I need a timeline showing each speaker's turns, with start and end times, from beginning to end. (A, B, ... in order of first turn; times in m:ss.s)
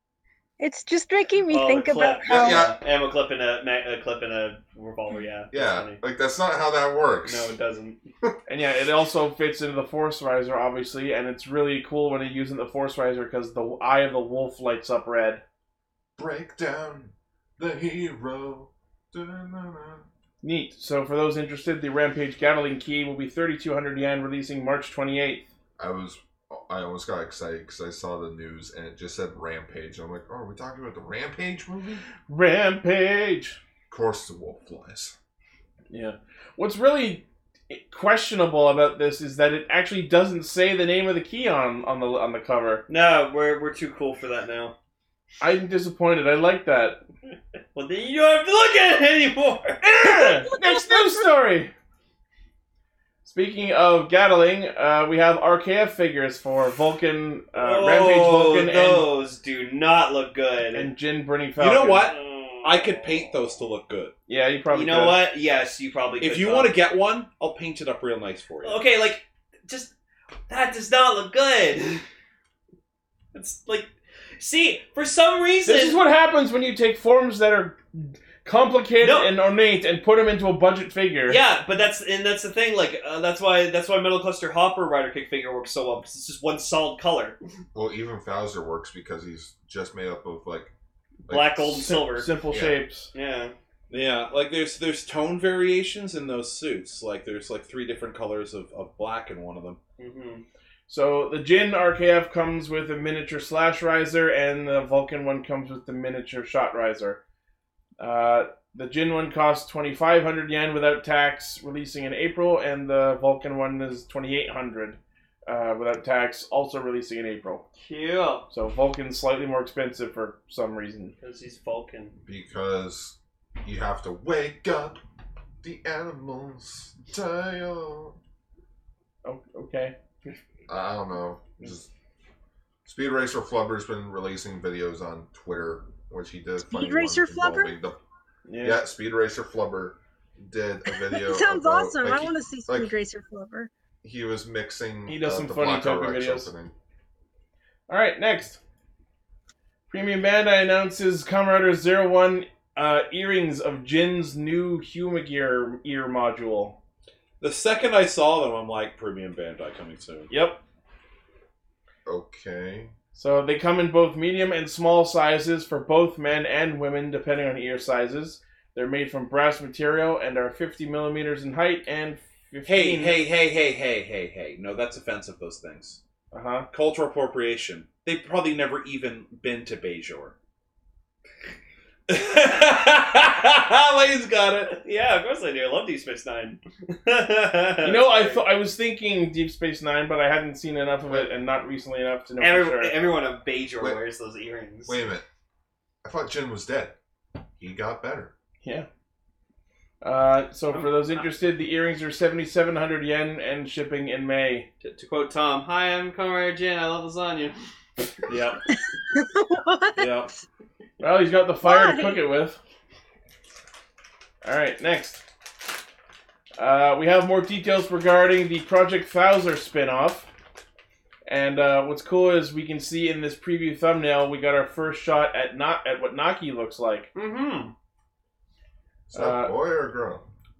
0:00.6-0:02.7 A
0:01.5-0:06.0 B
0:02.3-0:02.8 C
0:05.5-0:07.5 C
0:07.2-0:08.3 B
0:08.5-0:15.4 D
0:16.2-0:20.0 C
0:20.4-0:25.5 D
0:25.8-0:32.0 C
0:32.3-0:33.6 D
0:33.9-0:35.1 C
0:35.9-0:42.8 D
0:42.9-0:44.7 B
0:45.4-0:47.0 D
0:47.7-0:50.4 B
0:50.0-0:51.7 D
0:50.6-0:51.2 A
0:53.2-0:59.1 D
0:57.6-1:00.9 B
1:00.7-1:02.1 D
1:01.6-1:04.1 E
1:02.1-1:03.4 B
1:04.3-1:05.2 D
1:04.7-1:06.8 B
1:06.2-1:08.8 E
1:08.6-1:09.9 B
1:10.5-1:12.0 B
1:13.3-1:16.0 B
1:15.6-1:21.4 D
1:19.0-1:19.3 B
1:21.3-1:27.4 B
1:27.7-1:30.7 C
1:31.3-1:32.3 B
1:31.3-1:32.8 C
1:31.8-1:33.1 D
1:33.1-1:33.5 B
1:33.9-1:39.8 E
1:40.0-1:40.4 B
1:40.9-1:47.2 D
1:48.0-1:57.6 D
1:57.8-1:58.5 B
1:58.5-2:01.1 D
2:01.2-2:02.2 B
2:02.3-2:05.0 C
2:05.6-2:08.2 C
2:09.2-2:10.0 D
2:10.7-2:11.9 C
2:12.8-2:18.0 C
2:16.7-2:17.7 A
2:18.5-2:18.8 D
2:18.6-2:22.9 C
2:21.0-2:23.7 A
2:24.0-2:26.7 C
2:25.1-2:26.5 D
2:27.9-2:28.6 D
2:29.9-2:36.8 D
2:37.4-2:40.3 E
2:40.3-2:40.6 D
2:42.0-2:42.9 C
2:43.1-2:53.2 D
2:52.6-2:56.0 E
2:56.3-2:56.7 D
2:56.7-3:00.3 E
3:02.1-3:04.8 E
3:04.7-3:08.4 B
3:07.8-3:13.0 D
3:12.4-3:15.0 B
3:14.9-3:15.2 C
3:16.0-3:17.0 C
3:17.6-3:18.3 C
3:20.0-3:24.7 D
3:20.7-3:21.2 B
3:24.8-3:27.6 B
3:28.3-3:28.6 E
3:29.1-3:30.3 A
3:30.0-3:30.3 E
3:31.0-3:32.6 D
3:31.6-3:32.2 A
3:34.4-3:35.2 D
3:36.6-3:40.3 D
3:41.3-3:47.1 D
3:47.1-3:47.7 B
3:49.1-3:50.2 C
3:49.1-3:49.5 D